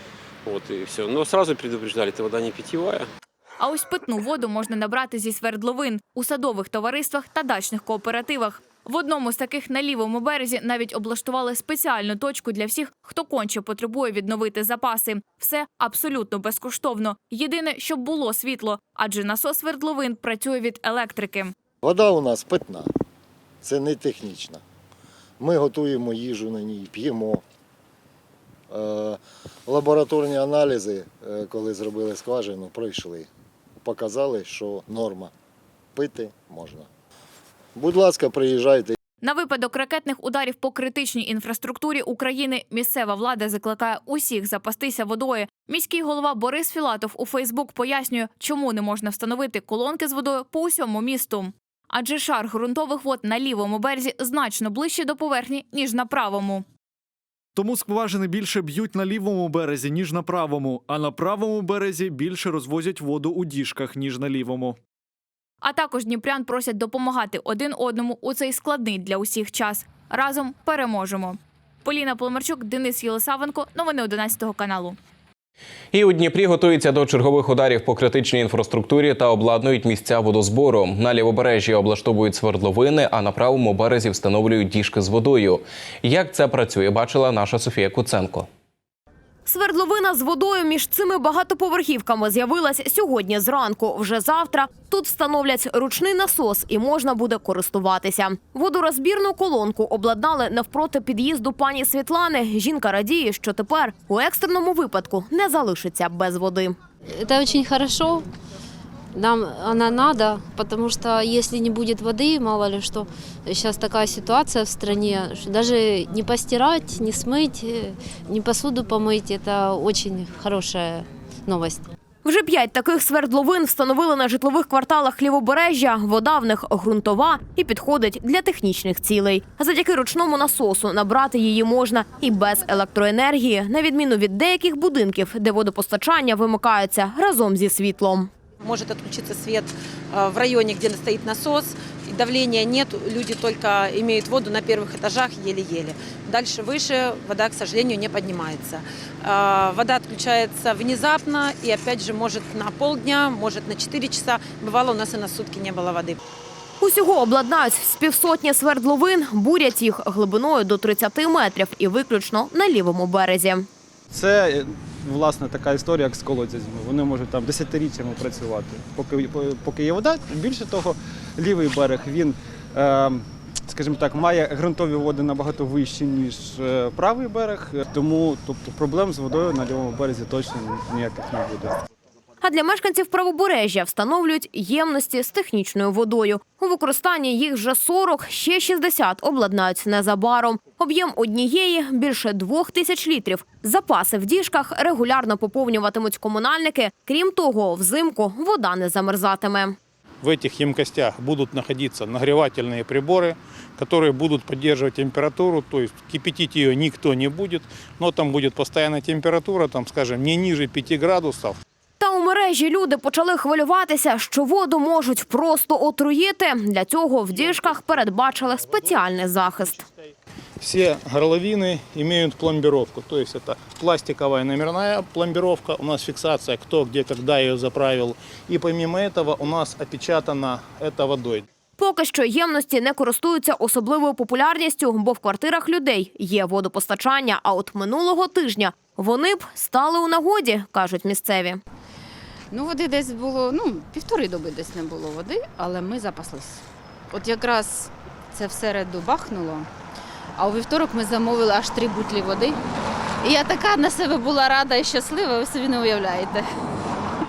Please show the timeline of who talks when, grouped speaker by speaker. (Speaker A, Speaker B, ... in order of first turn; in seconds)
Speaker A: 0.5-3.1
Speaker B: 3.6-21.5, 39.2-56.6, 65.6-75.0
Speaker C: 21.8-22.9, 23.6-24.6, 25.4-27.4, 28.7-33.3, 33.8-35.3, 36.0-36.9, 37.8-39.0
Speaker D: 57.5-64.8
Speaker E: 75.9-88.5
Speaker F: 89.5-106.8, 122.2-138.3, 156.8-163.7, 182.4-199.8, 212.0-219.9, 231.8-241.6
Speaker G: 107.1-108.2, 109.1-121.8
Speaker H: 138.6-155.1, 155.7-156.1
Speaker I: 164.1-181.8
Speaker J: 200.2-211.6, 220.6-231.4
Speaker K: 242.5-249.7, 250.4-252.6, 253.2-256.4